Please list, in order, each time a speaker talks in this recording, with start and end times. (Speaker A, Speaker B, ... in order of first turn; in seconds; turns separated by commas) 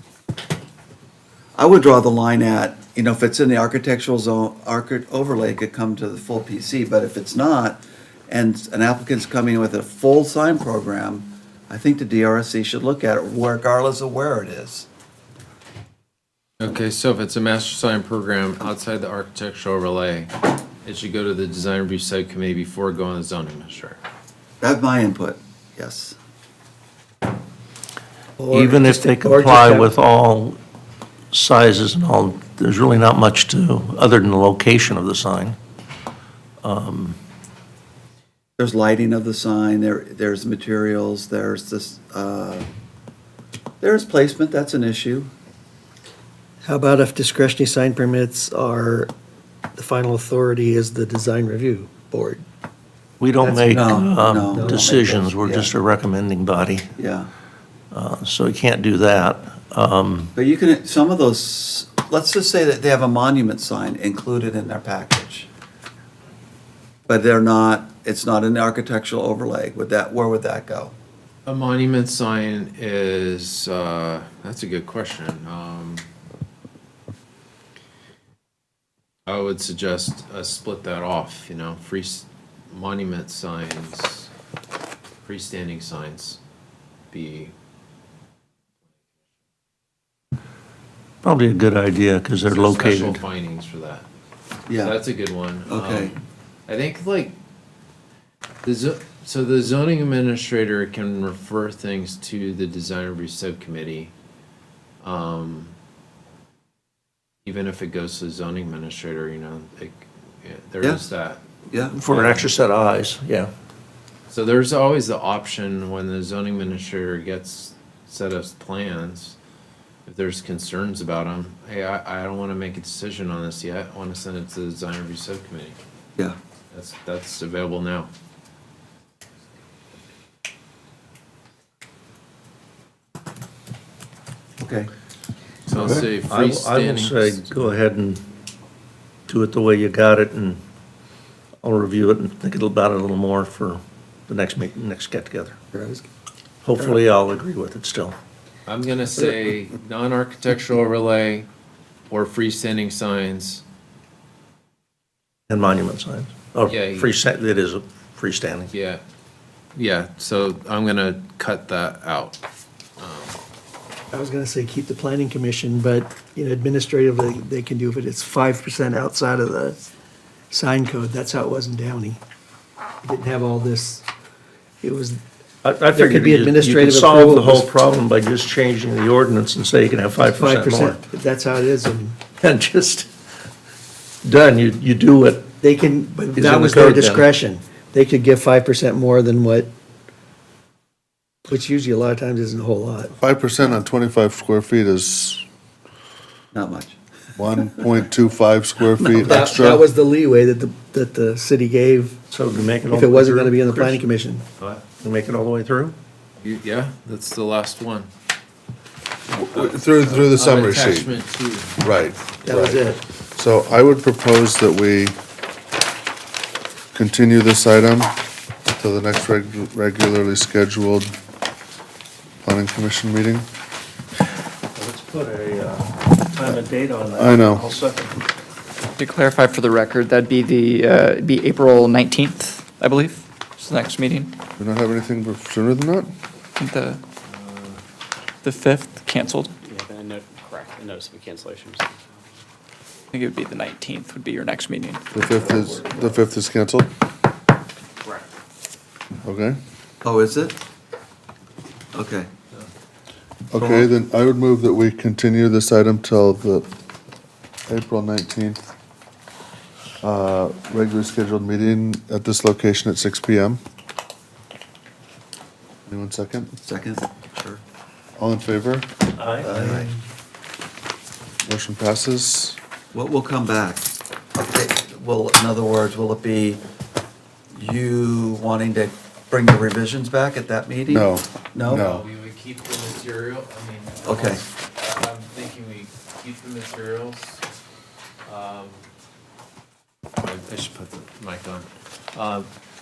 Speaker A: 1.6-14.9, Speaker B: 16.6-24.0, Speaker A: 24.6-26.2, Speaker C: 28.4-29.9, Speaker D: 28.5-30.6, Speaker D: 31.3-35.6, Speaker D: 36.6-37.2, Speaker A: 38.6-42.7, Speaker A: 43.8-45.3, Speaker C: 46.6-49.1, Speaker C: 49.8-52.5, Speaker D: 53.2-56.9, Speaker C: 53.4-55.2, Speaker A: 53.7-55.7, Speaker A: 57.0-57.3, Speaker D: 57.9-60.3, Speaker A: 60.4-65.5, Speaker A: 67.1-71.0, Speaker B: 71.5-76.1, Speaker B: 79.3-84.3, Speaker B: 85.2-86.4, Speaker B: 87.1-87.5, Speaker D: 91.2-93.2, Speaker B: 92.5-94.1, Speaker A: 94.7-95.0, Speaker B: 94.8-96.2, Speaker A: 95.7-96.2, Speaker B: 96.7-97.3, Speaker B: 98.7-104.1, Speaker B: 105.0-105.7, Speaker B: 107.5-111.4, Speaker A: 111.7-112.0, Speaker D: 111.9-113.5, Speaker B: 112.0-112.5, Speaker B: 114.3-119.4, Speaker B: 120.1-125.8, Speaker B: 126.7-128.1, Speaker A: 134.6-134.9, Speaker B: 135.7-137.5, Speaker A: 135.8-136.1, Speaker D: 136.2-138.2, Speaker D: 139.3-140.6, Speaker D: 141.6-145.6, Speaker A: 145.7-146.0, Speaker D: 146.6-148.2, Speaker B: 148.7-151.5, Speaker B: 152.1-153.6, Speaker D: 155.5-158.7, Speaker B: 156.7-157.2, Speaker B: 158.7-159.0, Speaker B: 159.8-162.4, Speaker B: 163.0-163.4, Speaker C: 164.1-169.8, Speaker C: 170.5-172.2, Speaker C: 173.0-174.1, Speaker C: 174.8-175.2, Speaker D: 175.6-181.0, Speaker C: 175.8-177.7, Speaker C: 180.2-182.2, Speaker D: 182.4-183.1, Speaker D: 184.2-185.5, Speaker C: 185.6-189.7, Speaker D: 186.3-187.3, Speaker C: 191.5-193.1, Speaker E: 193.2-195.4, Speaker A: 196.5-197.0, Speaker E: 197.4-199.8, Speaker C: 199.2-202.2, Speaker D: 202.3-204.1, Speaker C: 202.9-204.5, Speaker D: 205.0-206.0, Speaker B: 206.4-208.1, Speaker E: 209.3-211.1, Speaker B: 209.5-211.8, Speaker E: 211.8-215.2, Speaker C: 212.4-213.0, Speaker E: 216.9-218.1, Speaker E: 218.8-221.1, Speaker E: 222.4-223.5, Speaker D: 224.8-228.2, Speaker E: 227.1-227.6, Speaker F: 229.0-234.4, Speaker E: 234.6-236.1, Speaker F: 236.6-237.0, Speaker B: 237.4-237.8, Speaker F: 238.4-239.5, Speaker G: 239.7-241.9, Speaker F: 243.1-245.0, Speaker E: 245.1-246.9, Speaker E: 249.2-249.6, Speaker A: 250.0-250.6, Speaker A: 251.9-252.3, Speaker E: 253.5-256.7, Speaker A: 253.6-253.9, Speaker E: 257.7-258.7, Speaker E: 260.0-263.6, Speaker E: 265.9-266.5, Speaker A: 266.6-267.6, Speaker E: 268.2-268.9, Speaker D: 269.2-269.7, Speaker A: 269.4-269.9, Speaker E: 271.4-272.6, Speaker A: 272.9-276.6, Speaker A: 277.5-281.9, Speaker E: 280.9-282.1, Speaker B: 281.6-287.4, Speaker A: 284.1-284.4, Speaker B: 288.2-288.8, Speaker B: 290.2-292.5